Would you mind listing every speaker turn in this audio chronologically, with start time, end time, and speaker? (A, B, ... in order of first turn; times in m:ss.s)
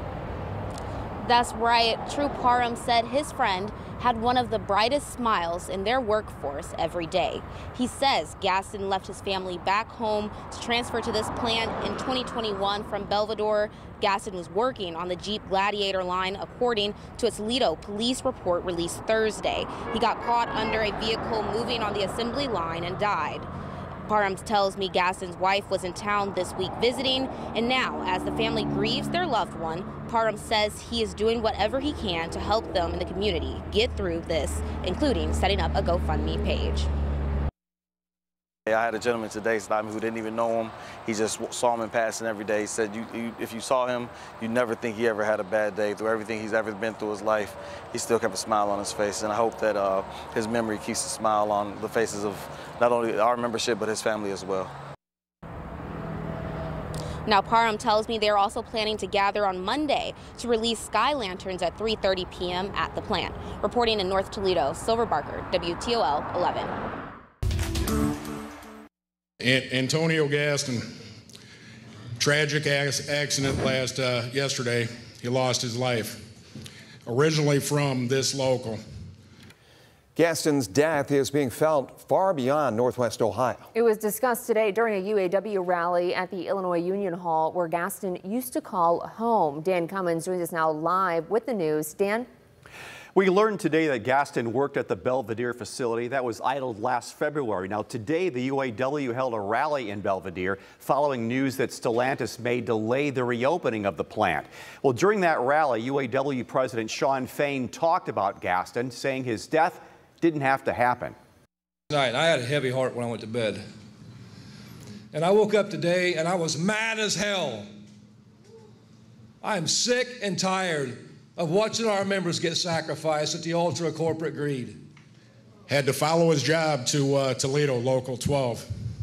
0:01.2-0:23.5 A
0:24.0-0:36.9 A
0:38.7-0:54.7 B
0:57.3-1:06.7 A
1:09.4-1:10.9 C
1:12.2-1:16.2 C
1:17.1-1:18.8 C
1:20.2-1:23.7 D
1:23.8-1:32.3 E
1:33.2-1:51.2 F
1:51.9-1:53.6 G
1:55.1-1:57.7 G
1:59.4-2:04.8 G
2:05.7-2:08.7 C